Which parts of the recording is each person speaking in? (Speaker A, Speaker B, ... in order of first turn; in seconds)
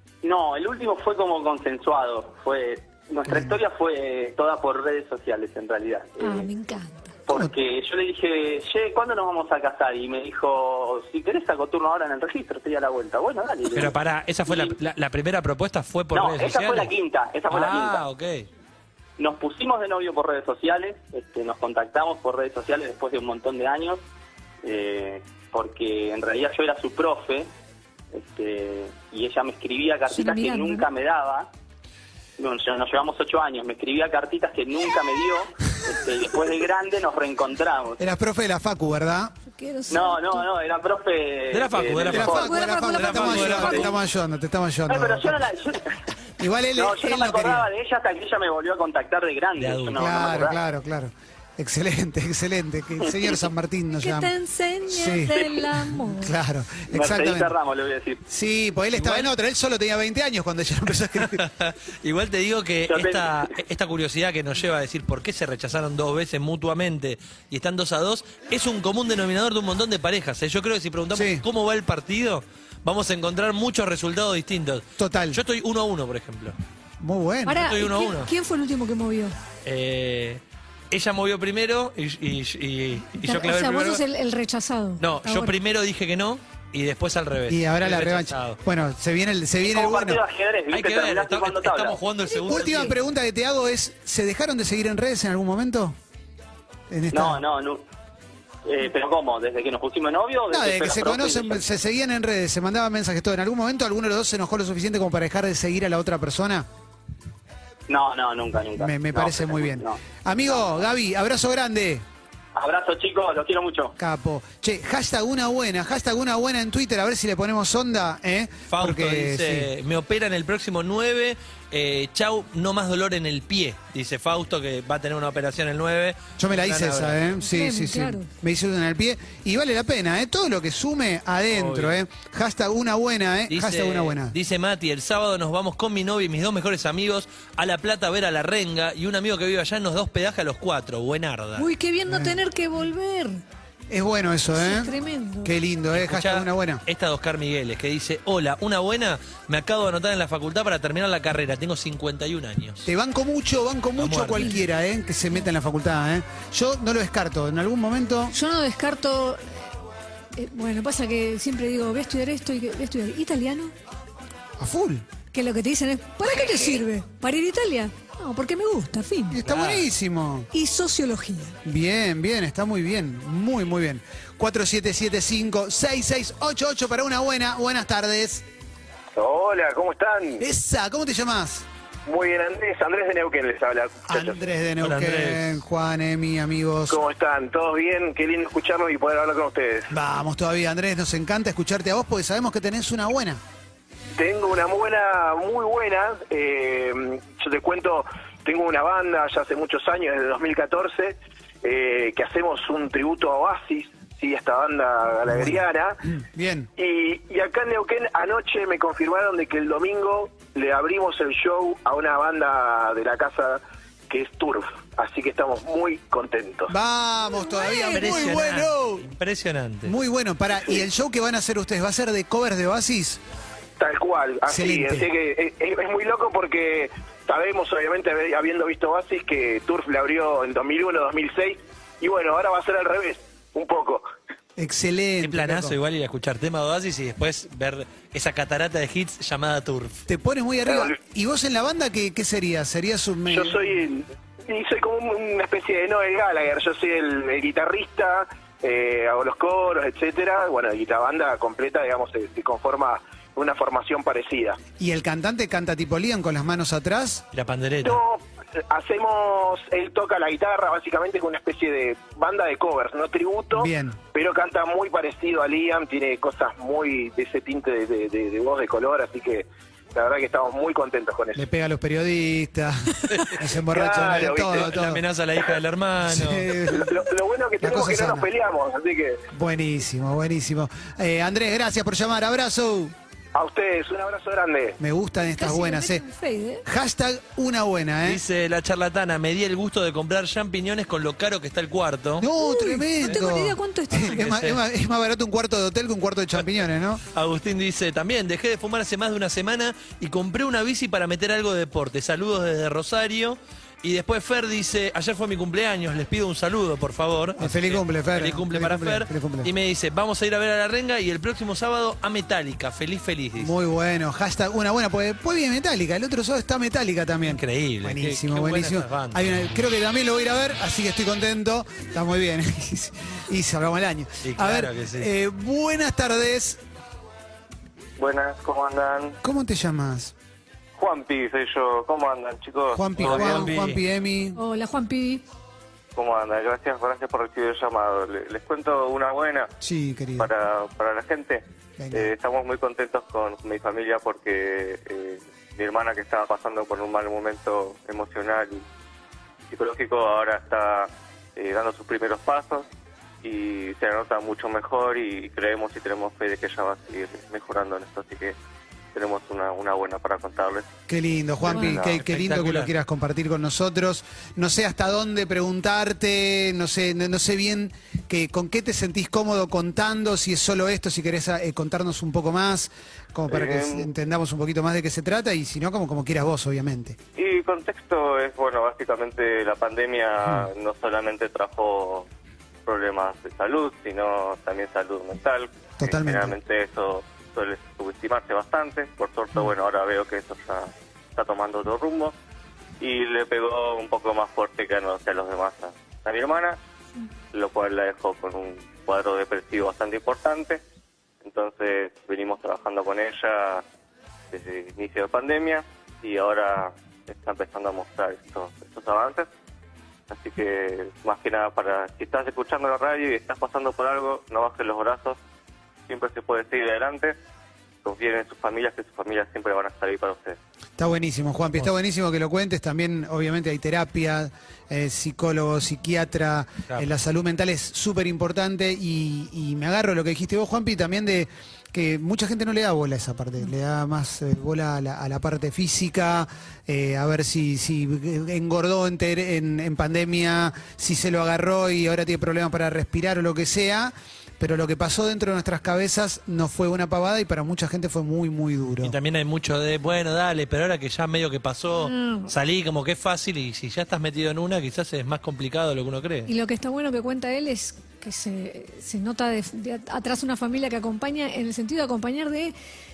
Speaker A: 0.2-6.5, 7.3-13.9, 14.5-14.8, 16.1-18.0, 19.2-24.0, 24.6-27.5, 28.1-31.5, 32.4-38.0, 39.9-42.5, 44.9-46.0, 46.8-50.6, 56.9-58.2, 62.9-63.6, 89.6-92.0, 97.1-97.8, 98.7-101.7, 107.9-110.8, 112.5-113.9
Speaker B: 3.3-3.6, 38.0-39.3, 42.1-45.4, 46.4-47.7, 50.0-54.3, 54.9-57.5, 58.3-61.4, 71.1-71.4, 75.0-75.4, 77.0-77.7, 87.5-90.2, 92.5-96.0, 96.9-97.4, 100.5-106.7, 108.8-112.0, 114.0-119.7, 126.4-134.3, 142.1-142.4, 143.9-144.9, 145.4-146.8, 152.8-158.3, 164.6-165.1, 169.3-170.5, 171.6-178.4, 180.4-181.7, 184.1-187.0, 189.9-193.4, 205.3-206.7, 216.7-219.1, 219.8-223.2, 224.5-225.1, 234.6-235.7, 240.1-243.6, 254.8-257.2, 263.5-264.0, 271.3-275.0, 276.0-276.9, 277.6-278.3, 279.3-282.9, 284.8-286.0, 286.6-288.2, 292.2-297.0, 307.4-309.5, 313.4-326.6, 329.2-330.1, 332.7-334.4, 339.6-340.3, 341.8-342.1, 360.9-377.0, 385.8-386.3, 420.8-448.9
Speaker C: 6.2-7.2, 30.1-30.9, 39.5-40.5, 42.3-43.9, 54.0-56.3, 77.5-79.4, 83.2-85.5, 92.3-92.8, 127.4-128.3, 141.6-143.4, 144.5-145.5, 158.3-159.4, 160.4-163.7, 165.3-169.4, 170.5-171.6, 217.3-218.2, 285.4-286.6, 292.4-294.2, 334.4-335.2, 451.8-452.3, 456.3-462.5
Speaker D: 13.7-16.9, 17.5-18.5, 41.5-43.9, 49.5-50.0, 58.9-59.3, 61.2-76.6, 77.6-78.3, 79.6-84.0, 85.0-88.6, 90.7-93.0, 118.7-127.3, 131.5-131.9, 133.5-141.7, 145.9-152.8, 154.0-154.6, 169.4-169.9, 184.8-185.6, 217.9-219.9, 235.2-240.0, 257.3-258.0, 273.1-273.4, 274.4-276.5, 288.0-292.3, 294.1-294.6, 297.1-313.5, 317.3-319.3, 324.2-325.1, 333.0-333.8, 361.5-362.7, 448.8-456.3
Speaker E: 179.2-180.4, 182.1-184.4, 186.9-189.9, 194.2-206.0, 206.8-216.7, 223.8-234.1, 240.7-240.9, 243.3-254.6, 257.8-271.4, 273.7-274.7, 276.7-279.2, 283.3-284.8
Speaker F: 328.0-329.2, 330.8-333.5, 335.9-339.5, 340.2-348.6, 349.5-352.7, 353.2-358.4, 358.9-360.7, 361.5-361.9, 373.3-373.9, 377.1-382.1, 382.6-392.1, 392.8-396.6, 397.3-400.6, 401.2-403.6, 404.3-409.3, 410.1-415.2, 415.9-417.1, 417.8-420.4